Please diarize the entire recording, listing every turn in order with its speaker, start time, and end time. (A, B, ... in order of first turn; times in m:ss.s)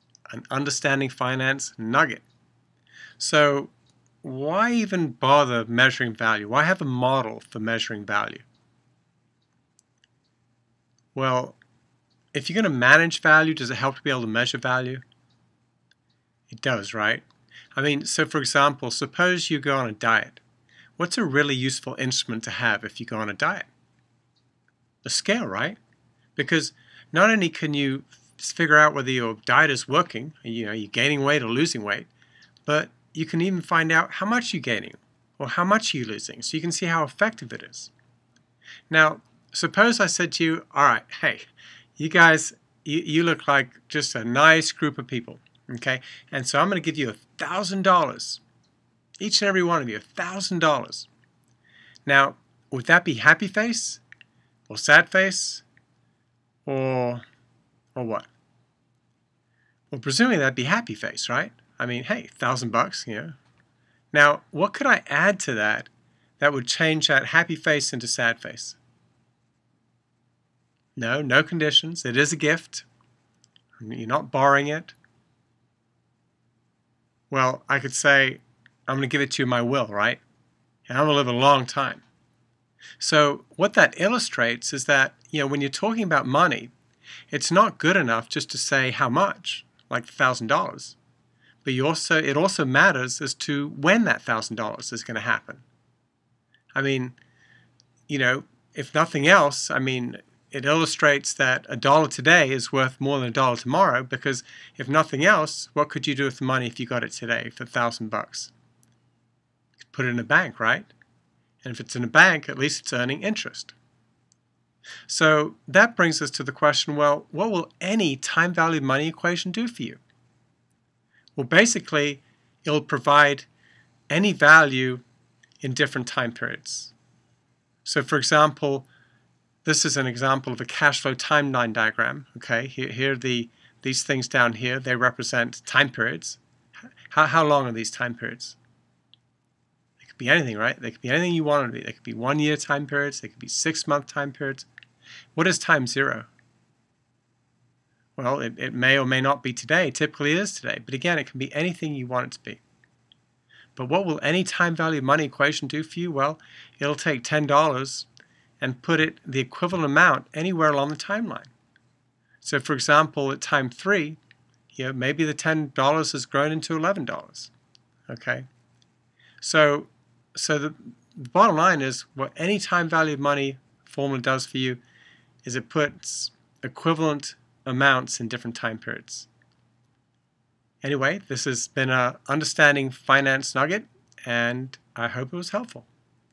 0:00.3-0:02.2 A
0:03.2-0:03.7 A
0:04.2-0:08.4 A
0:11.1-0:11.6 A
0:12.3-0:15.0 A
0:16.5-0:17.2 A
0:17.8-0:20.4 A
0:21.0-0:23.7 A
0:25.0-0:25.8 A
0:26.4-0:32.1 A
0:32.6-0:37.9 A
0:38.9-0:48.4 A
0:49.2-0:51.1 A
0:52.0-0:54.0 A
0:54.7-0:55.6 A
0:56.6-0:57.2 A
0:57.9-0:58.3 A
0:59.9-1:03.4 A
1:04.1-1:08.8 A
1:11.0-1:12.8 A
1:13.8-1:14.9 A
1:17.3-1:20.2 A
1:20.9-1:22.0 A
1:23.0-1:26.7 A
1:27.3-1:31.0 A
1:31.6-1:35.6 A
1:36.7-1:37.2 A
1:38.1-1:48.5 A
1:49.8-1:50.9 A
1:51.6-1:53.7 A
1:55.1-2:00.0 A
2:01.4-2:03.5 A
2:04.1-2:05.0 A
2:05.6-2:06.9 A
2:07.8-2:08.9 A
2:09.6-2:16.4 A
2:17.1-2:18.6 A
2:20.0-2:24.7 A
2:25.3-2:26.3 A
2:28.2-2:32.6 A
2:33.8-2:38.1 A
2:38.6-2:41.5 A
2:42.4-2:44.2 A
2:44.7-2:47.5 A
2:48.1-2:48.5 A
2:49.4-2:54.8 A
2:55.4-2:59.3 A
3:00.8-3:05.9 A